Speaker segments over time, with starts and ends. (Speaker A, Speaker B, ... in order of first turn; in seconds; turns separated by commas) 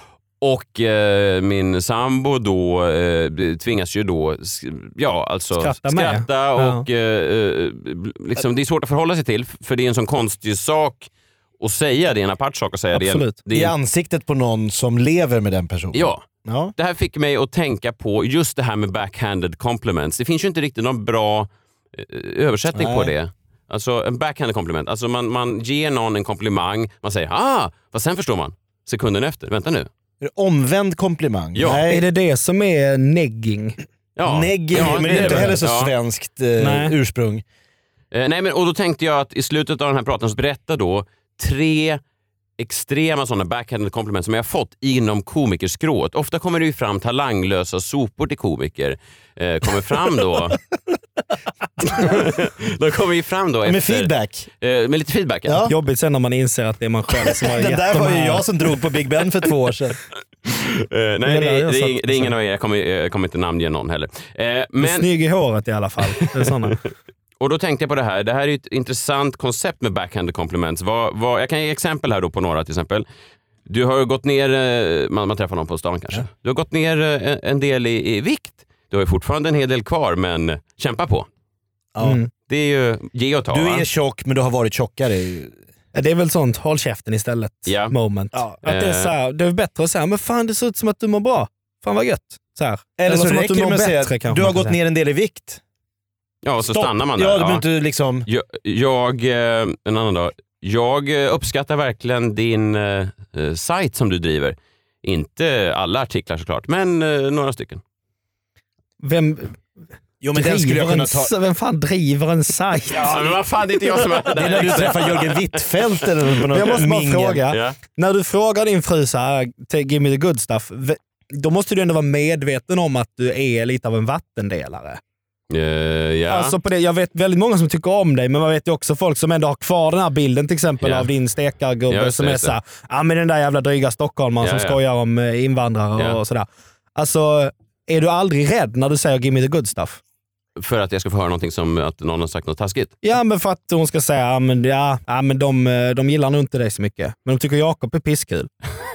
Speaker A: 0.4-11.1, Speaker B: 5.6-6.8, Speaker A: 11.6-13.7, Speaker B: 12.9-13.4, Speaker C: 13.5-16.7, Speaker A: 15.9-16.2, Speaker A: 16.8-29.9, Speaker C: 22.7-23.1, Speaker C: 30.2-32.0, Speaker A: 31.6-31.8, Speaker B: 31.7-33.8, Speaker A: 34.2-35.9, Speaker C: 34.2-37.4, Speaker B: 34.8-35.6, Speaker B: 36.6-37.0, Speaker A: 38.1-42.0, Speaker A: 42.6-50.6, Speaker A: 51.9-55.6, Speaker C: 53.6-54.5, Speaker C: 55.5-55.8, Speaker B: 55.7-58.5, Speaker C: 57.3-60.0, Speaker A: 60.5-65.1, Speaker B: 61.3-62.3, Speaker B: 64.8-66.8, Speaker A: 67.4-73.1, Speaker A: 73.7-81.3, Speaker B: 82.0-82.3, Speaker A: 82.5-83.9, Speaker C: 83.5-85.5, Speaker B: 85.9-94.8, Speaker A: 87.7-87.9, Speaker A: 88.7-89.1, Speaker C: 93.0-95.6, Speaker A: 96.4-97.7, Speaker C: 96.6-98.3, Speaker A: 98.3-107.8, Speaker B: 109.0-109.5, Speaker C: 110.2-111.3, Speaker B: 110.3-113.1, Speaker A: 113.0-115.5, Speaker C: 114.3-117.4, Speaker B: 116.5-125.0, Speaker A: 117.5-117.8, Speaker A: 125.5-126.5, Speaker B: 126.3-140.0, Speaker A: 130.8-131.1, Speaker A: 131.9-132.6, Speaker A: 134.4-134.8, Speaker A: 140.6-143.0, Speaker B: 143.0-148.5